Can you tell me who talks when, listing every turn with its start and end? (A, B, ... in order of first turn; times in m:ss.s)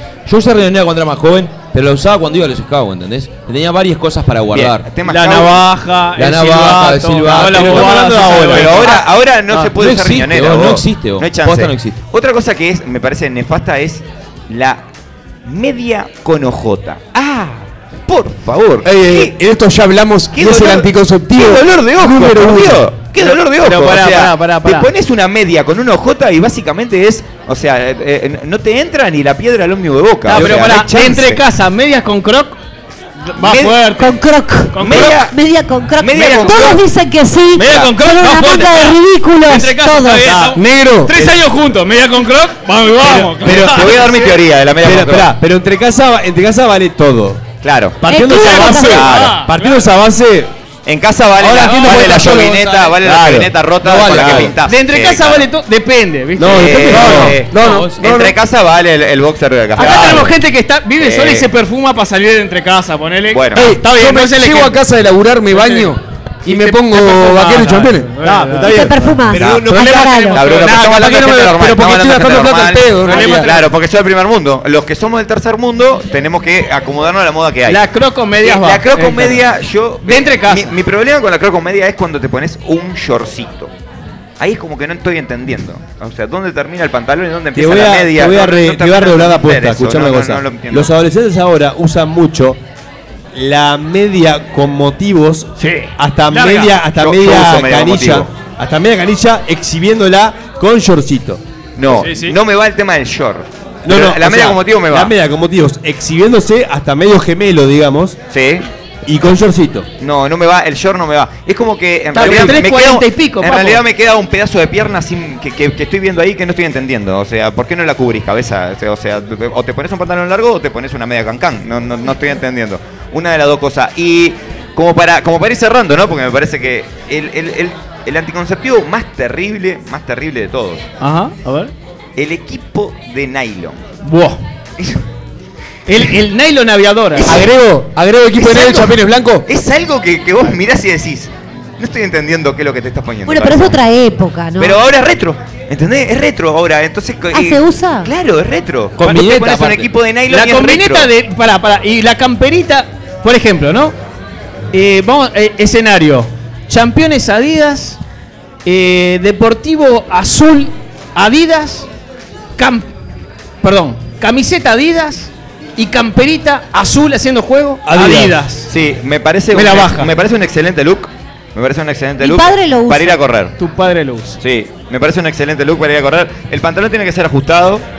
0:00.3-0:04.9 A
0:04.5-0:05.6 B
0:05.0-0:09.7 C
0:06.2-0:09.0 A
0:07.4-0:08.9 D
0:07.6-0:14.8 B
0:09.7-0:12.0 A
0:15.4-0:19.4 B
0:18.8-0:22.9 E
0:20.3-0:31.4 B
0:23.1-0:24.9 C
0:30.3-0:32.6 C
0:33.2-0:34.2 C
0:33.4-0:33.8 B
0:34.0-0:40.4 F
0:34.7-0:35.2 C
0:34.8-0:35.4 B
0:36.0-0:36.8 B
0:36.1-0:36.7 C
0:37.6-0:39.0 C
0:37.6-0:37.9 B
0:39.5-0:44.4 C
0:40.2-0:40.6 D
0:40.5-0:41.2 E
0:42.8-0:44.0 D
0:43.4-0:45.4 B
0:44.8-0:47.4 D
0:47.6-0:49.4 B
0:48.0-0:50.5 D
0:48.1-0:49.1 F
0:48.7-0:49.8 C
0:50.8-0:55.5 B
0:51.4-0:52.7 C
0:51.5-0:54.5 D
0:54.0-0:54.5 A
0:54.5-0:57.9 C
0:56.4-0:57.9 D
0:56.4-1:00.4 B
0:59.8-1:04.8 C
1:01.0-1:01.5 B
1:03.3-1:03.8 B
1:03.5-1:08.2 E
1:05.5-1:08.8 C
1:08.2-1:11.2 D
1:08.7-1:10.4 F
1:09.3-1:17.8 B
1:09.9-1:11.6 C
1:11.4-1:13.5 E
1:13.0-1:13.6 C
1:17.7-1:19.5 C
1:18.4-1:23.7 B
1:20.0-1:20.8 C
1:24.4-1:31.0 B
1:27.6-1:32.6 D
1:33.3-1:41.4 D
1:35.6-1:36.8 C
1:36.8-1:38.3 B
1:41.8-1:45.2 B
1:41.9-1:42.4 C
1:43.8-1:48.2 D
1:48.3-1:48.6 B
1:49.1-1:49.9 D
1:50.0-2:10.8 B
1:52.1-1:53.8 C
1:52.2-1:52.6 D
2:11.0-2:11.7 C
2:12.2-2:13.8 B
2:14.0-2:14.4 C
2:15.9-2:17.5 C
2:17.2-2:19.5 E
2:18.4-2:23.8 B
2:23.3-2:24.8 F
2:24.6-2:31.1 B
2:27.3-2:28.1 F
2:29.0-2:29.9 A
2:30.3-2:34.0 C
2:34.7-2:38.0 C
2:38.6-2:41.9 C
2:42.6-2:42.9 C
2:43.6-2:48.7 C
2:47.8-2:48.4 D
2:48.7-2:53.6 B
2:49.5-2:50.1 C
2:52.2-2:53.2 F
2:53.6-2:54.4 C
2:54.4-2:57.8 B